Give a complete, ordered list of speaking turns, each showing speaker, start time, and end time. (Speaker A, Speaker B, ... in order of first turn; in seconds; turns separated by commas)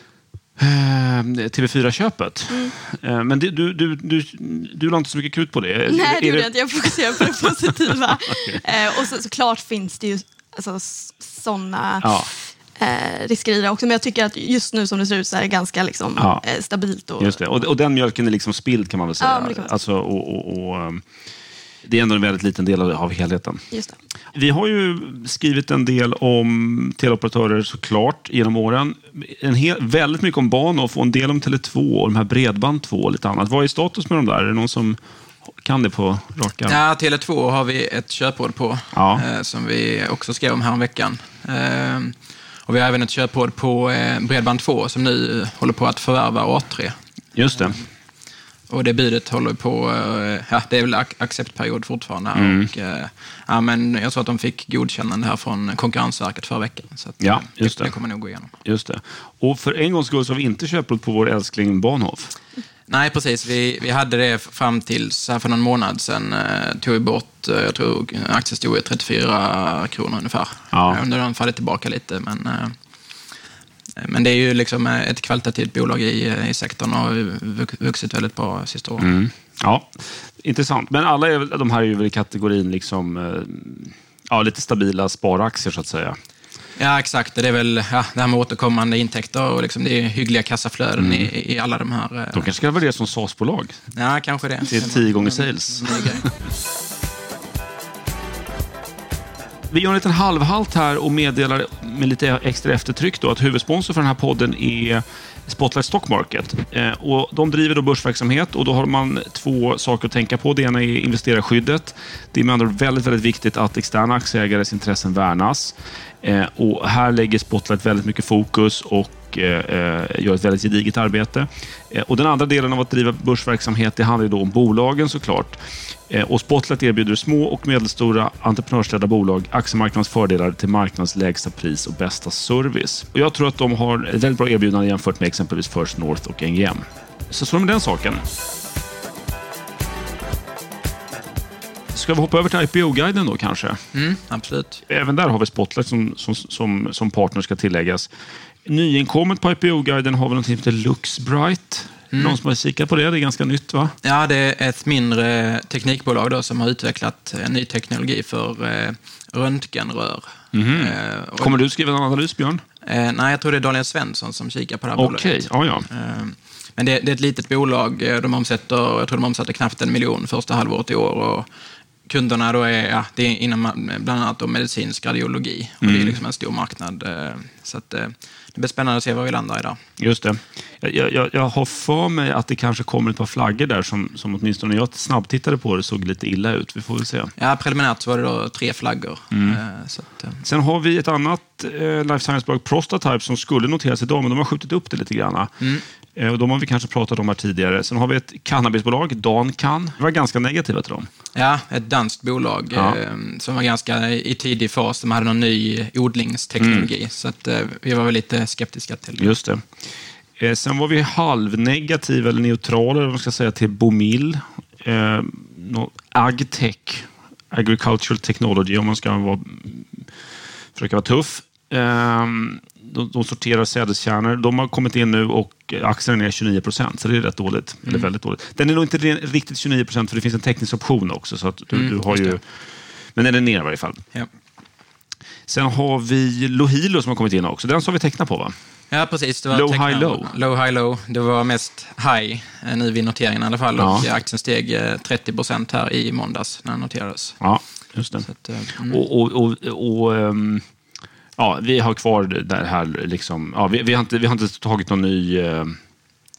Speaker A: 0.6-7.5, Speaker B: 5.9-17.4, Speaker A: 12.0-12.3, Speaker A: 16.2-16.4, Speaker A: 17.2-21.0, Speaker B: 19.2-19.7, Speaker A: 21.8-23.6, Speaker A: 24.3-36.8, Speaker C: 36.6-42.1, Speaker A: 38.9-39.2, Speaker C: 42.6-47.0, Speaker A: 47.4-47.8, Speaker C: 48.7-58.5, Speaker A: 52.3-52.7, Speaker A: 57.2-57.9, Speaker A: 58.6-62.3, Speaker C: 62.9-72.7, Speaker A: 70.7-71.0, Speaker C: 74.0-79.1, Speaker A: 79.0-86.2, Speaker C: 86.8-92.5, Speaker A: 91.0-91.3, Speaker A: 92.3-93.8, Speaker C: 93.9-96.3, Speaker A: 94.6-96.2, Speaker A: 99.7-125.6, Speaker A: 126.1-138.2, Speaker A: 141.9-143.8, Speaker C: 143.9-144.8, Speaker A: 144.9-148.1, Speaker A: 148.6-153.9, Speaker C: 154.0-161.6, Speaker A: 160.5-162.6, Speaker C: 162.8-171.5, Speaker A: 165.0-165.8, Speaker C: 172.1-179.8, Speaker A: 175.8-176.2, Speaker A: 180.0-187.3, Speaker C: 187.4-190.4, Speaker A: 189.3-189.6, Speaker A: 190.4-195.5, Speaker A: 196.1-201.1, Speaker C: 201.3-209.3, Speaker A: 202.7-203.0, Speaker A: 206.6-206.9, Speaker A: 209.2-209.7, Speaker A: 210.4-220.1, Speaker A: 220.7-232.4, Speaker C: 231.7-232.4, Speaker A: 233.1-234.0, Speaker A: 235.5-238.5, Speaker C: 238.9-247.4, Speaker A: 239.5-240.3, Speaker A: 243.8-244.1, Speaker A: 247.4-248.3, Speaker C: 248.2-249.0, Speaker A: 248.8-250.6, Speaker A: 251.4-255.8